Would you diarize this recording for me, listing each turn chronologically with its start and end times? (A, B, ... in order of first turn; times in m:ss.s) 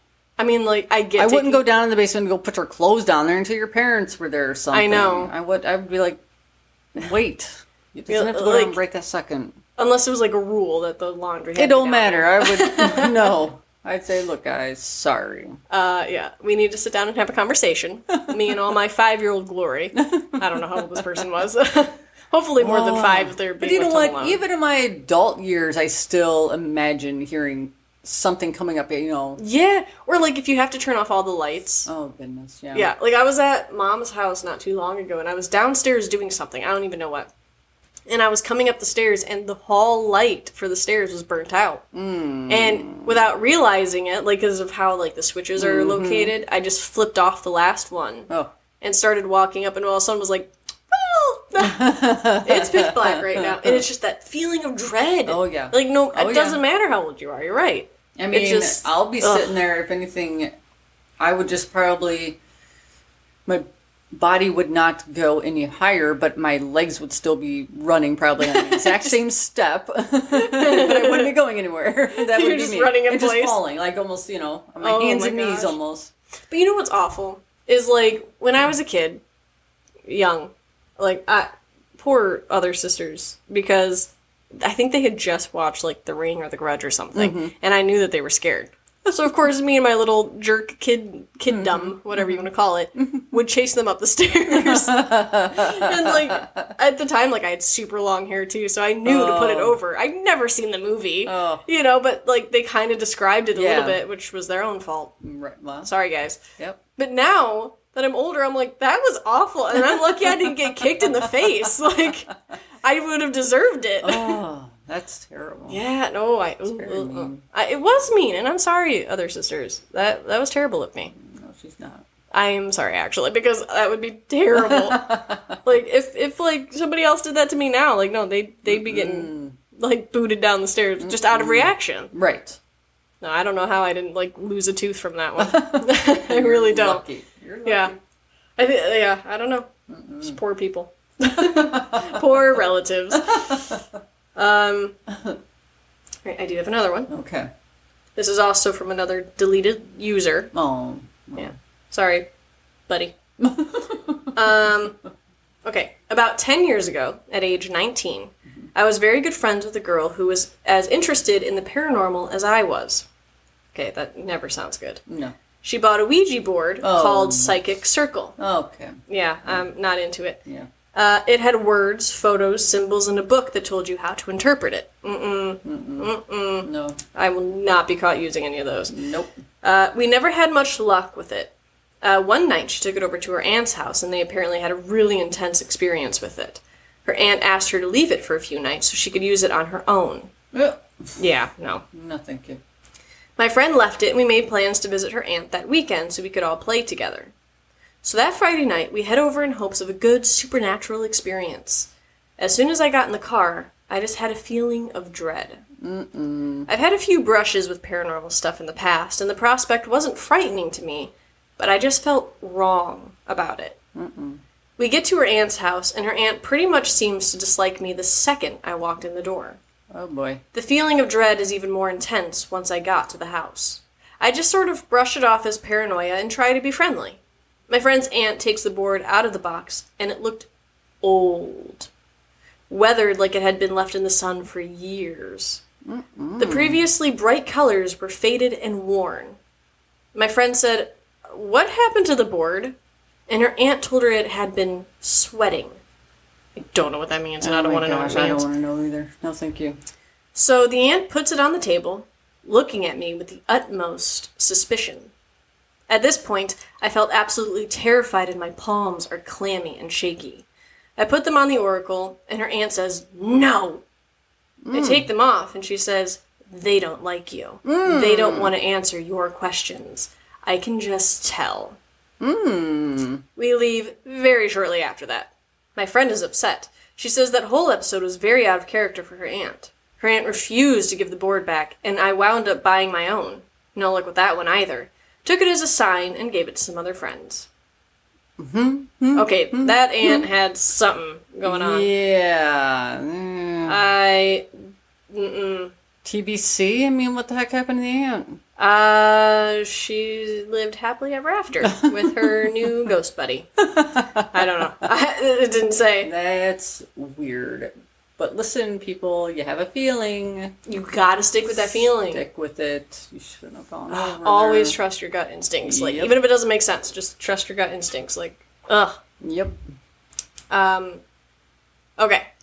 0:00.4-0:01.6 A
0:01.2-0:06.2 B
0:04.7-0:05.3 A
0:07.0-0:09.6 B
0:08.1-0:08.8 A
0:09.8-0:13.3 A
0:11.6-0:15.6 B
0:15.7-0:24.4 A
0:18.1-0:18.5 B
0:20.0-0:21.2 B
0:22.6-0:29.4 B
0:29.4-0:31.9 A
0:31.9-0:32.9 B
0:32.7-0:37.3 A
0:38.1-0:41.8 A
0:41.9-0:43.2 B
0:42.5-0:48.3 A
0:45.6-0:46.3 B
0:48.8-0:59.6 A
0:51.6-0:53.8 B
0:55.3-0:56.6 B
0:58.2-1:00.6 B
1:01.2-1:02.4 B
1:03.5-1:16.1 B
1:08.4-1:09.1 A
1:10.3-1:11.4 A
1:12.2-1:13.6 A
1:14.8-1:15.8 A
1:16.5-1:19.2 A
1:20.0-1:45.2 A
1:27.2-1:27.5 B
1:31.5-1:32.5 B
1:33.0-1:33.3 B
1:34.5-1:36.8 B
1:39.0-1:39.8 B
1:41.2-1:41.6 B
1:43.6-1:44.0 B
1:45.2-1:45.9 B
1:45.8-1:46.4 A
1:47.0-1:52.3 A
1:51.0-1:51.4 B
1:52.8-1:54.4 A
1:54.0-1:55.8 B
1:55.7-2:01.1 A
1:56.7-1:57.4 B
2:01.1-2:02.0 B
2:02.3-2:05.0 A
2:04.5-2:05.6 B
2:05.6-2:12.1 A
2:08.7-2:09.6 B
2:11.0-2:12.6 B
2:13.2-2:17.0 A
2:15.4-2:18.0 B
2:17.6-2:17.9 A
2:18.6-2:19.7 A
2:19.9-2:20.4 B
2:20.2-2:23.7 A
2:21.4-2:22.2 B
2:23.2-2:23.8 B
2:24.4-2:25.0 A
2:25.1-2:25.4 B
2:26.2-2:27.1 A
2:27.1-2:27.5 B
2:28.2-2:30.5 A
2:30.5-2:31.5 B
2:31.4-2:32.3 A
2:32.9-2:33.2 A
2:33.4-2:34.4 B
2:34.4-2:35.0 A
2:35.6-2:43.1 A
2:43.7-2:45.0 A
2:45.1-2:45.4 B
2:45.6-2:48.4 A
2:46.8-2:47.6 B
2:48.4-2:49.6 B
2:49.1-2:50.4 A
2:50.9-2:58.9 A
2:55.6-2:57.0 B
2:58.9-2:59.4 B
2:59.6-3:10.3 A
3:10.5-3:11.2 B
3:11.2-3:11.8 A
3:11.9-3:12.6 B
3:13.4-3:17.3 A
3:18.0-3:25.6 A
3:25.8-3:26.7 B
3:26.7-3:33.8 A
3:34.0-3:34.4 B
3:34.8-3:39.6 A
3:39.9-3:40.4 B
3:40.5-3:50.5 A
3:51.0-3:51.9 A
3:52.7-3:55.6 A
3:55.8-3:56.8 B
3:56.4-3:59.4 A
4:00.2-4:02.8 A
4:03.3-4:05.8 A
4:06.6-4:08.4 A
4:07.4-4:09.8 B
4:10.4-4:15.1 A
4:15.9-4:20.5 A
4:21.0-4:23.8 A
4:24.6-4:25.1 B
4:24.7-4:31.8 A
4:27.6-4:28.5 B
4:32.2-4:33.2 B
4:33.4-4:47.5 A
4:48.4-4:50.2 B
4:49.2-4:51.9 A
4:51.4-4:53.8 B
4:53.7-4:54.5 A
4:55.1-4:55.7 A
4:56.0-4:58.4 B
4:58.6-5:03.5 A
5:01.6-5:02.7 B
5:03.7-5:04.3 B
5:04.3-5:06.1 A
5:06.0-5:10.6 B
5:10.7-5:12.2 A
5:11.7-5:14.8 B
5:13.9-5:19.0 A
5:15.6-5:16.2 B
5:19.2-5:19.6 B
5:20.5-5:21.0 A
5:22.0-5:22.3 A